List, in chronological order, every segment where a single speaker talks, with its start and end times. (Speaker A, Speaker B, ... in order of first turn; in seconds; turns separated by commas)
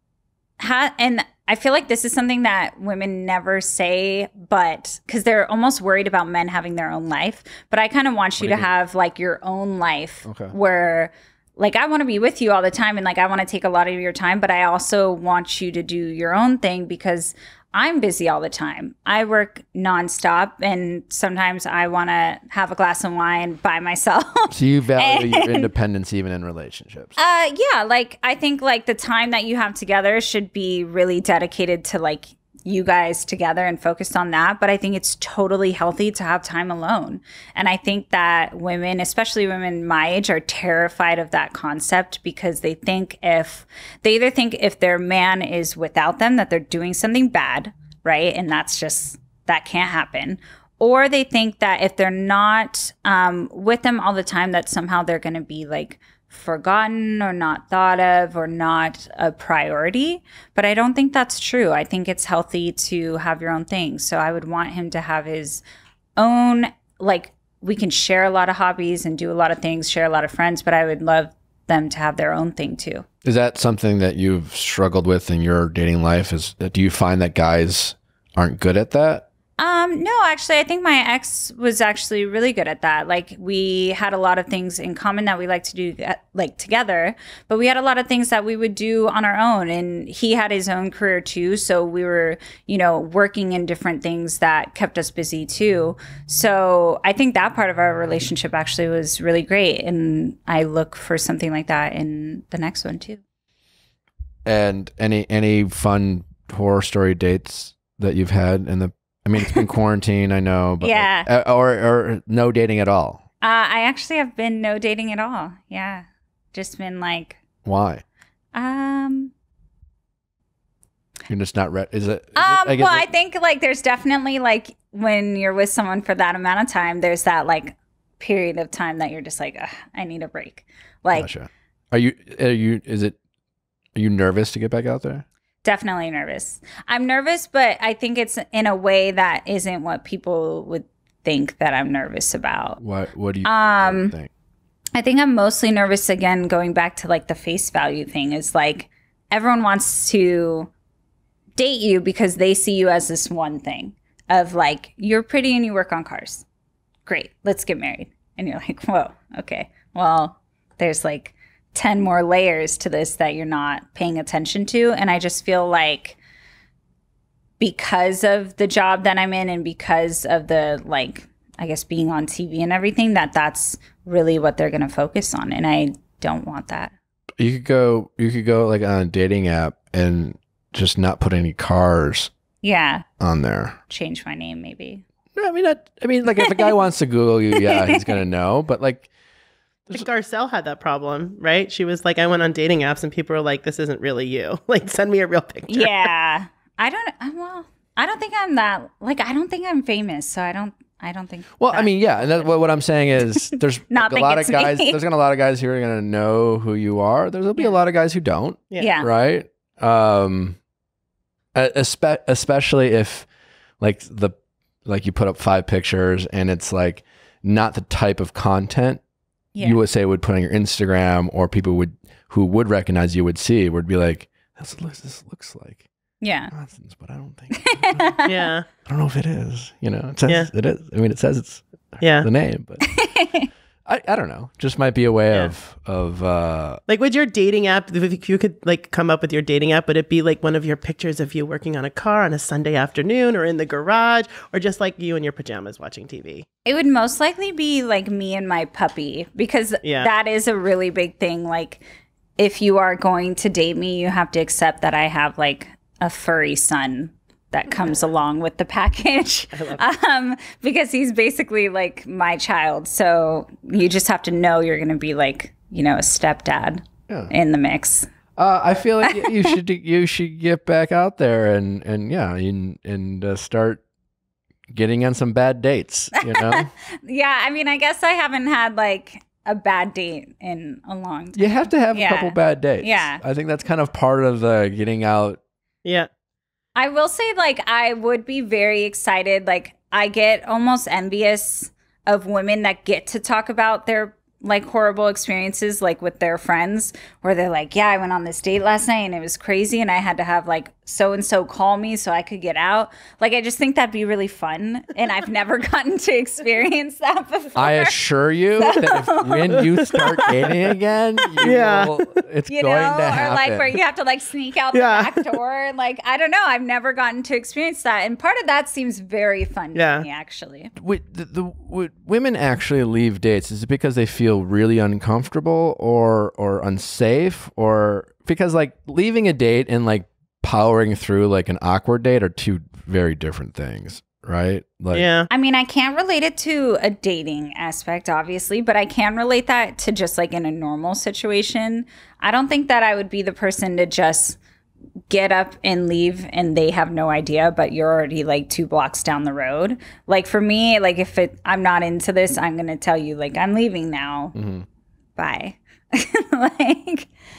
Speaker A: 0.6-25.7, Speaker B: 8.4-8.7, Speaker B: 10.2-10.5, Speaker B: 24.5-27.1, Speaker A: 27.2-65.6, Speaker A: 66.2-73.0, Speaker B: 73.2-79.2, Speaker A: 79.6-103.2, Speaker B: 104.4-113.2, Speaker A: 110.8-111.3, Speaker A: 113.4-117.4, Speaker B: 117.6-118.0, Speaker A: 118.5-119.3, Speaker B: 121.3-123.1, Speaker A: 122.3-131.3, Speaker B: 131.1-133.2, Speaker B: 133.9-135.2, Speaker A: 135.6-142.8, Speaker B: 142.8-144.3, Speaker A: 143.4-144.1, Speaker A: 144.9-150.7, Speaker A: 151.6-156.4, Speaker A: 157.1-166.2, Speaker A: 167.6-176.9, Speaker B: 177.4-182.3, Speaker A: 182.6-183.0, Speaker B: 183.2-183.8, Speaker A: 183.9-185.0, Speaker B: 185.3-189.1, Speaker A: 186.3-186.7, Speaker A: 187.5-188.2, Speaker C: 189.9-196.1, Speaker A: 195.7-202.5, Speaker B: 201.6-210.6, Speaker A: 203.9-205.0, Speaker C: 208.7-209.0, Speaker A: 208.8-209.1, Speaker B: 211.5-213.3, Speaker B: 213.8-219.0, Speaker A: 219.5-219.8, Speaker B: 219.6-225.8, Speaker A: 226.2-226.5, Speaker B: 226.5-228.2, Speaker A: 227.5-228.5, Speaker C: 228.2-228.7, Speaker B: 228.8-231.6, Speaker C: 232.0-232.3, Speaker B: 232.2-232.8, Speaker A: 232.8-233.5, Speaker B: 233.8-236.8, Speaker C: 236.9-246.4, Speaker A: 246.7-251.8, Speaker C: 249.8-250.1, Speaker A: 252.4-268.1, Speaker C: 259.5-259.8, Speaker B: 268.4-273.8, Speaker A: 269.0-269.5, Speaker B: 274.7-276.7, Speaker A: 276.2-283.2, Speaker B: 281.3-285.4, Speaker C: 285.8-286.1, Speaker A: 286.8-307.9, Speaker B: 307.6-313.8, Speaker A: 308.6-310.5, Speaker C: 310.3-310.5, Speaker A: 311.2-311.5, Speaker C: 311.4-312.0, Speaker A: 312.5-320.7, Speaker C: 314.7-315.4, Speaker C: 319.7-320.1, Speaker B: 320.8-335.1, Speaker C: 334.9-335.3, Speaker A: 335.3-344.4, Speaker A: 345.1-354.3, Speaker B: 354.3-354.6, Speaker A: 355.2-357.1